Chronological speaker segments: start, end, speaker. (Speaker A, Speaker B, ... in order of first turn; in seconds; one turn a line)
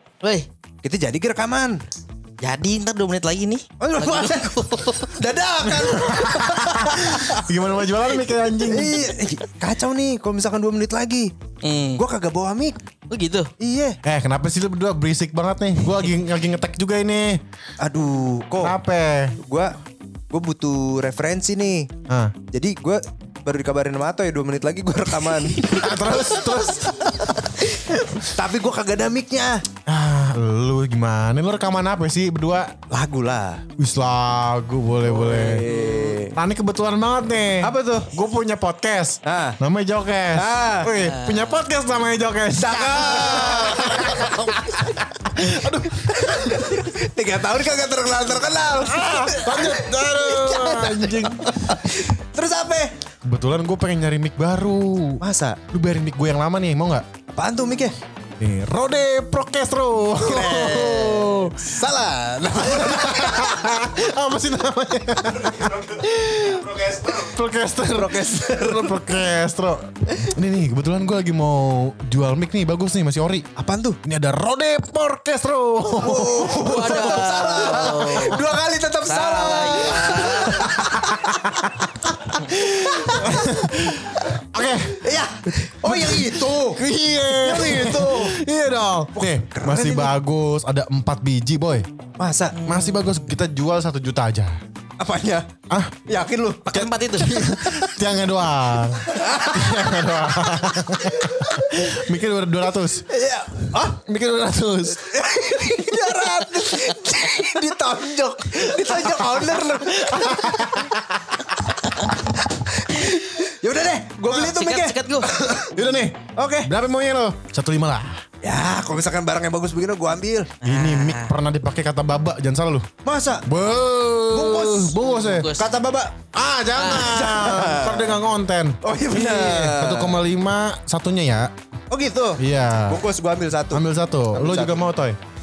Speaker A: 0.2-0.5
Speaker B: 0.8-1.8
Speaker A: 2.4-5.2
Speaker B: 3.8-7.4
Speaker C: 5.8-9.0
Speaker B: 8.7-11.3
Speaker A: 11.6-12.0
Speaker B: 11.9-12.8
Speaker A: 13.1-13.5
Speaker B: 13.6-14.0
Speaker C: 14.0-17.4
Speaker B: 17.8-18.8
Speaker C: 18.6-19.4
Speaker B: 19.4-19.7
Speaker B: 20.3-21.9
Speaker C: 22.1-22.3
Speaker B: 22.5-26.2
Speaker C: 25.6-27.5
Speaker B: 27.6-29.6
Speaker C: 29.9-32.8
Speaker B: 32.9-33.6
Speaker C: 33.8-35.7
Speaker B: 35.0-36.4
Speaker C: 36.2-46.7
Speaker B: 37.6-38.1
Speaker B: 39.2-39.6
Speaker B: 40.3-40.9
Speaker A: 40.9-41.6
Speaker B: 42.6-44.9
Speaker A: 42.9-44.5
Speaker B: 45.9-52.9
Speaker C: 48.8-51.9
Speaker C: 53.2-57.0
Speaker B: 55.2-55.6
Speaker B: 57.3-57.9
Speaker C: 58.4-61.7
Speaker B: 60.2-63.7
Speaker C: 62.5-73.5
Speaker B: 66.5-67.3
Speaker B: 67.9-69.2
Speaker B: 73.5-74.0
Speaker C: 74.0-77.3
Speaker B: 76.0-81.3
Speaker A: 76.5-80.7
Speaker C: 80.2-91.9
Speaker B: 82.8-88.4
Speaker B: 89.1-90.2
Speaker B: 92.2-92.6
Speaker A: 92.5-93.2
Speaker C: 92.6-94.6
Speaker B: 95.0-95.5
Speaker C: 95.7-96.1
Speaker B: 96.0-96.8
Speaker A: 96.7-97.8
Speaker C: 96.7-103.1
Speaker B: 99.1-99.9
Speaker B: 103.1-103.8
Speaker C: 103.7-105.7
Speaker B: 104.9-110.9
Speaker C: 109.9-111.1
Speaker B: 111.5-115.7
Speaker A: 114.2-115.3
Speaker C: 115.5-118.2
Speaker B: 116.3-116.7
Speaker B: 118.4-120.5
Speaker A: 120.6-121.3
Speaker C: 120.6-122.9
Speaker B: 123.0-123.5
Speaker C: 123.4-125.5
Speaker B: 124.3-124.9
Speaker A: 125.1-125.7
Speaker B: 125.5-126.1
Speaker C: 126.3-131.5
Speaker A: 126.8-127.1
Speaker B: 126.8-128.2
Speaker B: 128.8-130.2
Speaker B: 131.9-134.9
Speaker C: 132.4-133.0
Speaker C: 133.7-135.2